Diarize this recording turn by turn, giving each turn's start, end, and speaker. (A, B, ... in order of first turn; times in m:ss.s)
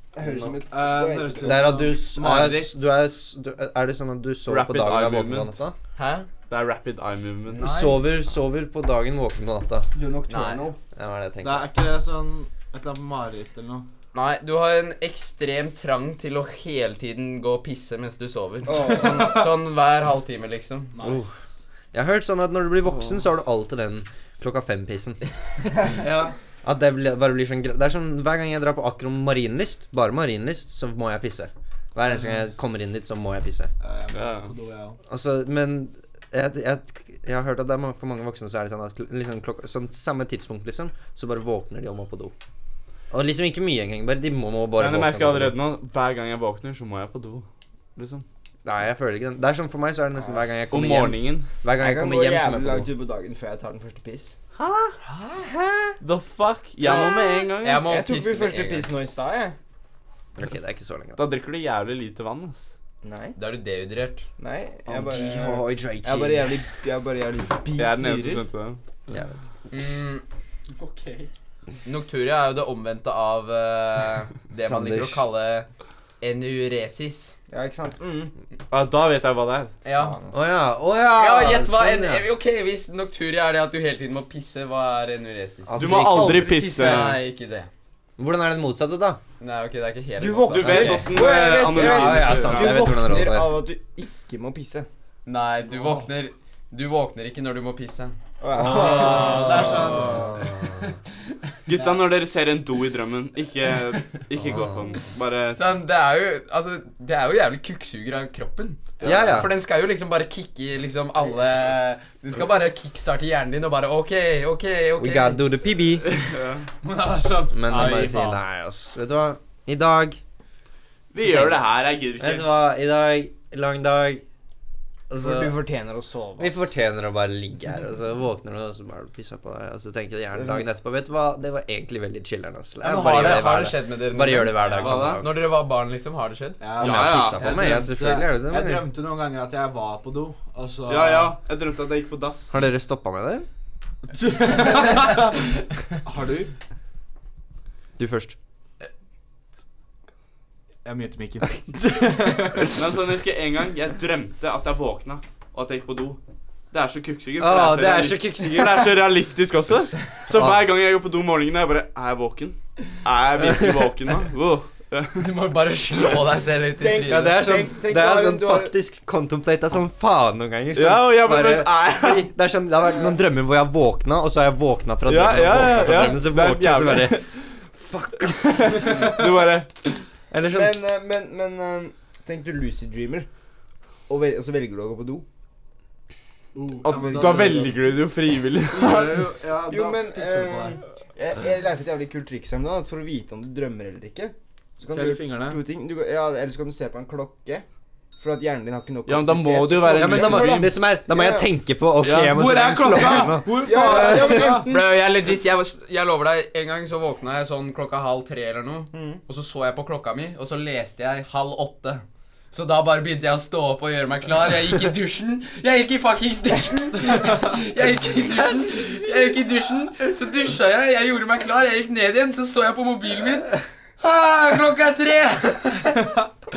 0:00.1-0:01.7 A
0:00.2-0:00.5 B
0:00.7-0:02.8 C
0:01.4-0:05.7 B
0:04.5-0:05.5 D
0:06.0-0:06.3 E
0:06.5-0:07.7 D
0:07.5-0:08.0 E
0:07.6-0:09.9 B
0:09.9-0:10.8 A
0:10.3-0:10.7 E
0:10.9-0:11.7 B
0:11.4-0:13.9 C
0:14.1-0:20.9 E
0:18.7-0:19.3 A
0:20.9-0:21.6 C
0:21.0-0:21.4 B
0:21.9-0:25.2 B
0:25.9-0:26.3 C
0:26.6-0:33.7 B
0:33.8-0:35.0 C
0:34.1-0:34.5 D
0:35.1-0:42.3 B
0:43.1-0:45.5 B
0:44.8-0:48.2 D
0:48.6-0:52.9 B
0:50.7-0:51.5 D
0:51.8-0:54.3 A
0:54.6-0:55.0 D
0:55.4-0:56.0 B
0:56.0-0:58.0 D
0:56.8-0:58.9 E
0:57.8-0:59.6 A
1:00.4-1:01.2 B
1:01.2-1:02.7 D
1:03.0-1:03.4 A
1:03.4-1:04.3 E
1:04.4-1:08.4 A
1:04.8-1:06.6 B
1:07.8-1:08.8 D
1:09.1-1:09.3 B
1:09.7-1:10.2 E
1:10.7-1:11.3 C
1:11.8-1:15.7 E
1:14.6-1:15.2 B
1:16.2-1:17.3 E
1:17.5-1:18.3 A
1:18.7-1:19.7 D
1:19.8-1:20.2 E
1:20.0-1:20.4 A
1:20.3-1:22.2 B
1:21.1-1:25.7 E
1:25.7-1:26.7 B
1:25.8-1:27.2 D
1:25.9-1:27.1 A
1:26.7-1:27.7 E
1:28.2-1:29.2 B
1:29.4-1:31.1 E
1:30.2-1:34.9 A
1:30.5-1:32.9 D
1:30.7-1:33.5 B
1:35.2-1:38.2 E
1:38.4-1:39.8 A
1:38.6-1:40.4 C
1:38.7-1:40.7 B
1:38.8-1:40.3 E
1:41.7-1:45.6 D
1:44.4-1:44.9 B
1:45.5-1:55.4 E
1:49.0-1:49.4 D
1:49.0-1:49.5 B
1:55.0-1:56.1 B
1:56.2-1:56.7 D
1:56.8-1:58.4 C
1:57.5-2:00.2 B
2:01.1-2:02.5 D
2:01.2-2:01.6 B
2:02.2-2:04.2 B
2:05.1-2:05.5 B
2:05.1-2:06.6 A
2:06.4-2:15.5 B
2:10.3-2:10.6 A
2:12.8-2:16.7 E
2:14.8-2:15.2 D
2:16.6-2:21.4 C
2:16.8-2:17.8 D
2:16.8-2:18.9 B
2:20.9-2:22.5 D
2:22.5-2:23.5 B
2:24.1-2:25.4 C
2:26.0-2:26.5 C
2:28.0-2:28.4 B
2:30.8-2:32.8 C
2:32.7-2:36.2 D
2:36.7-2:45.3 D
2:37.4-2:38.9 B
2:40.3-2:40.6 B
2:43.4-2:43.7 B
2:45.2-2:47.3 E
2:46.8-2:48.7 A
2:47.0-2:57.2 B
2:50.7-2:52.3 D
2:55.0-2:57.2 D
2:57.7-2:59.2 B
2:58.2-3:00.0 D
3:00.3-3:00.8 B
3:00.5-3:03.3 A
3:04.1-3:05.2 A
3:06.5-3:07.8 C
3:06.8-3:09.3 D
3:06.9-3:07.8 A
3:08.7-3:10.8 C
3:09.7-3:17.6 A
3:14.9-3:15.6 C
3:18.2-3:21.5 A
3:19.1-3:20.7 D
3:19.9-3:24.5 B
3:22.1-3:24.7 C
3:23.5-3:24.9 A
3:24.5-3:46.1 E
3:28.9-3:29.2 A